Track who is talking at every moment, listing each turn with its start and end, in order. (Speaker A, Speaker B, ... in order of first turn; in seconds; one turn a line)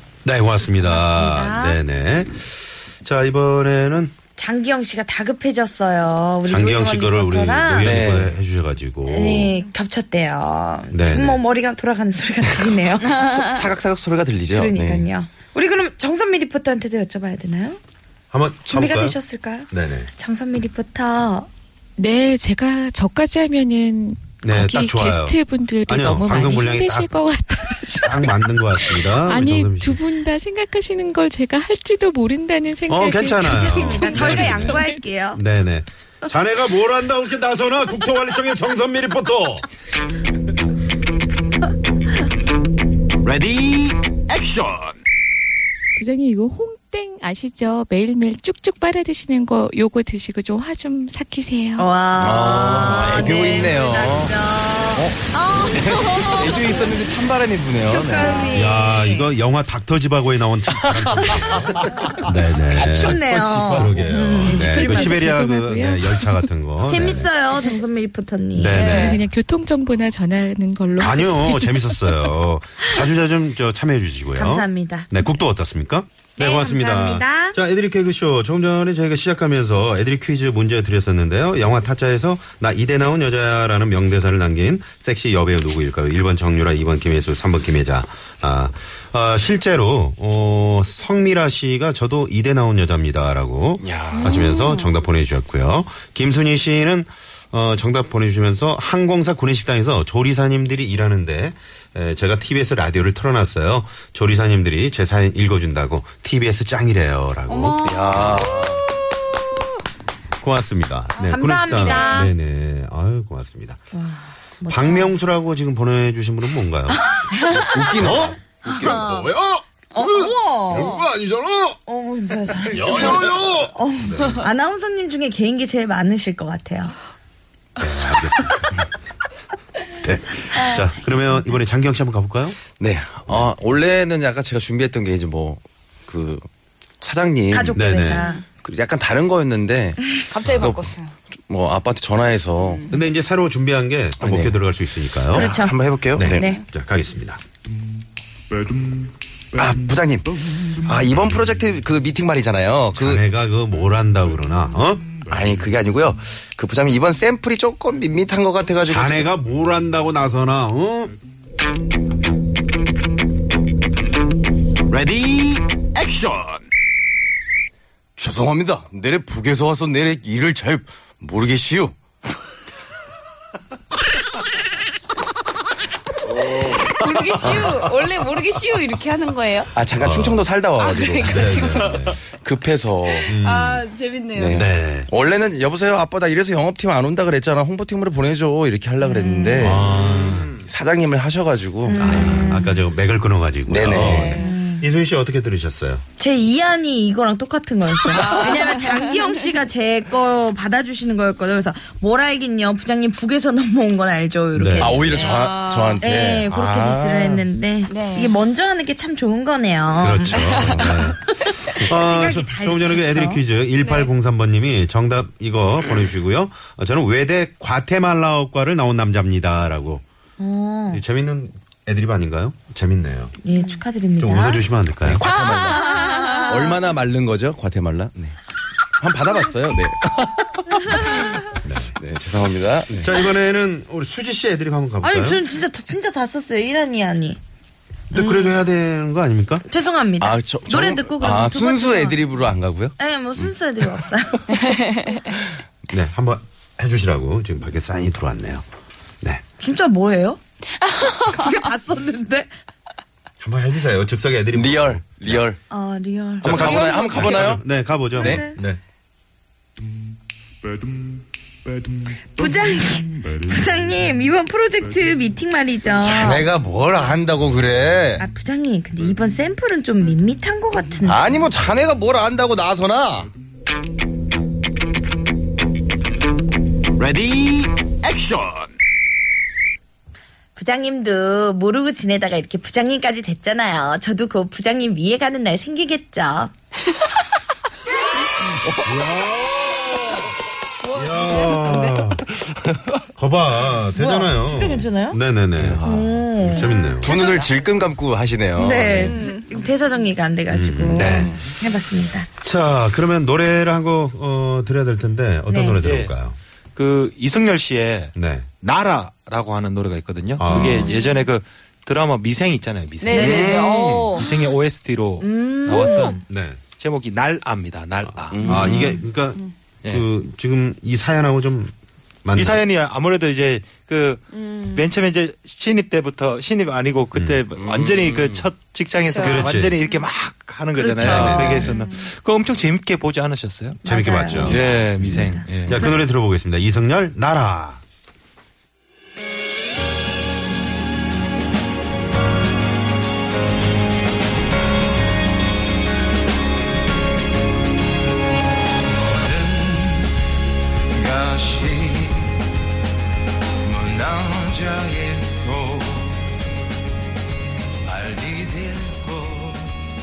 Speaker A: 0.2-4.2
Speaker B: 0.8-1.8
Speaker B: 4.4-8.0
Speaker A: 6.5-9.5
Speaker C: 7.8-8.3
Speaker B: 9.1-13.2
Speaker A: 10.9-11.4
Speaker D: 13.1-13.6
Speaker C: 13.1-15.1
Speaker B: 14.5-17.8
Speaker A: 18.3-19.2
Speaker B: 18.7-21.5
Speaker A: 19.7-20.1
Speaker E: 22.0-35.0
Speaker A: 24.4-27.1
Speaker A: 28.0-30.0
Speaker A: 32.9-34.8
Speaker B: 33.4-35.4
Speaker A: 35.3-39.6
Speaker E: 46.0-51.9
Speaker B: 51.8-56.9
Speaker C: 52.2-54.4
Speaker C: 54.9-58.5
Speaker B: 57.8-59.3
Speaker A: 58.5-67.3
Speaker C: 60.9-62.1
Speaker B: 62.7-65.2
Speaker C: 63.2-63.9
Speaker E: 64.4-66.5
Speaker B: 66.9-69.1
Speaker A: 68.5-69.2
Speaker D: 68.7-69.2
Speaker E: 68.8-72.0
Speaker A: 71.0-108.5
Speaker B: 74.4-75.1
Speaker B: 76.4-77.6
Speaker C: 93.8-94.6
Speaker D: 94.2-94.9
Speaker D: 107.5-109.0
Speaker C: 107.8-108.9
Speaker A: 110.4-113.8
Speaker B: 111.2-112.3
Speaker D: 111.7-112.1
Speaker B: 113.9-115.2
Speaker A: 114.7-117.0
Speaker B: 116.9-117.8
Speaker C: 117.4-119.3
Speaker A: 118.0-121.8
Speaker B: 118.6-119.3
Speaker B: 119.9-121.0
Speaker D: 120.0-121.0
Speaker B: 121.9-126.9
Speaker A: 122.7-124.4
Speaker C: 122.8-123.7
Speaker A: 127.8-128.8
Speaker A: 130.0-132.6
Speaker C: 132.8-136.5
Speaker C: 137.0-138.0
Speaker B: 137.5-138.4
Speaker A: 137.8-138.3
Speaker C: 138.5-142.8
Speaker D: 140.3-141.1
Speaker D: 142.6-143.0
Speaker A: 142.9-145.6
Speaker C: 144.2-144.6
Speaker C: 145.3-146.5
Speaker B: 145.3-145.8
Speaker A: 146.1-147.4
Speaker B: 146.3-146.6
Speaker C: 149.5-153.2
Speaker A: 152.9-155.2
Speaker C: 155.3-159.3
Speaker A: 158.8-161.2
Speaker C: 164.9-165.4
Speaker A: 165.0-165.4
Speaker C: 168.2-171.9
Speaker D: 176.6-179.7
Speaker C: 177.4-177.8
Speaker C: 179.8-183.3
Speaker A: 180.0-180.4
Speaker D: 180.8-182.0
Speaker A: 181.2-182.2
Speaker D: 183.1-184.6
Speaker A: 183.3-183.9
Speaker C: 184.3-192.5
Speaker A: 184.5-185.1
Speaker B: 189.0-189.8
Speaker A: 189.6-190.5
Speaker B: 191.9-192.8
Speaker A: 192.0-196.0
Speaker C: 193.7-194.4
Speaker D: 193.9-194.5
Speaker B: 194.3-194.9
Speaker B: 196.2-205.1
Speaker D: 198.1-199.4
Speaker A: 204.5-205.0
Speaker C: 204.8-207.5
Speaker D: 205.0-206.1
Speaker B: 206.0-213.4
Speaker D: 207.9-208.3
Speaker A: 210.0-220.0
Speaker B: 220.4-221.0
Speaker A: 220.9-223.3
Speaker B: 223.4-224.7
Speaker A: 224.2-225.2
Speaker C: 225.0-228.3
Speaker D: 225.2-226.7
Speaker B: 225.7-226.6
Speaker C: 229.0-231.5
Speaker A: 231.6-232.0
Speaker C: 232.0-233.1
Speaker A: 232.9-235.4
Speaker B: 235.0-237.4
Speaker A: 238.1-239.6
Speaker D: 238.1-238.6
Speaker B: 239.7-242.2
Speaker C: 240.2-243.5
Speaker B: 243.0-244.8
Speaker D: 244.6-245.2
Speaker A: 245.9-248.7
Speaker B: 249.6-250.4
Speaker B: 251.1-252.5
Speaker A: 253.4-255.4
Speaker C: 254.5-255.6
Speaker B: 255.7-256.8
Speaker C: 256.4-257.6
Speaker A: 256.4-258.8
Speaker D: 256.5-257.6
Speaker C: 258.1-258.4
Speaker B: 258.2-258.6
Speaker B: 262.3-266.5
Speaker C: 266.0-268.2
Speaker B: 268.2-271.5
Speaker C: 271.0-273.3
Speaker B: 280.6-286.5
Speaker C: 288.6-288.9
Speaker A: 288.7-290.3
Speaker D: 290.8-292.1
Speaker A: 290.9-292.2
Speaker A: 293.1-295.8
Speaker B: 293.9-295.2
Speaker C: 295.6-299.2
Speaker B: 295.8-296.9
Speaker A: 296.4-297.1
Speaker D: 297.1-297.4
Speaker B: 298.6-302.3
Speaker D: 299.0-299.5
Speaker A: 300.5-301.4
Speaker C: 300.9-301.5
Speaker A: 302.4-306.4
Speaker B: 305.5-305.8
Speaker F: 305.8-306.1
Speaker F: 306.8-316.2
Speaker A: 308.1-308.5
Speaker A: 310.4-310.9
Speaker D: 310.5-311.3
Speaker D: 313.0-314.3
Speaker C: 313.1-314.2
Speaker B: 313.1-313.5
Speaker B: 315.2-316.2
Speaker D: 315.7-316.1
Speaker A: 316.3-316.6
Speaker F: 316.8-318.8
Speaker A: 318.1-321.7
Speaker C: 318.3-319.0
Speaker D: 318.6-318.9
Speaker A: 322.2-322.6
Speaker F: 322.3-333.8
Speaker D: 324.3-324.8
Speaker A: 327.1-327.4
Speaker C: 327.6-328.5
Speaker D: 329.1-330.0
Speaker A: 329.2-329.8
Speaker A: 330.9-331.7
Speaker B: 331.0-331.7
Speaker D: 331.6-332.0
Speaker B: 333.8-335.5
Speaker A: 333.8-337.8
Speaker F: 334.4-336.0
Speaker C: 348.9-350.1
Speaker C: 350.9-352.4
Speaker C: 353.6-356.2
Speaker C: 357.9-359.8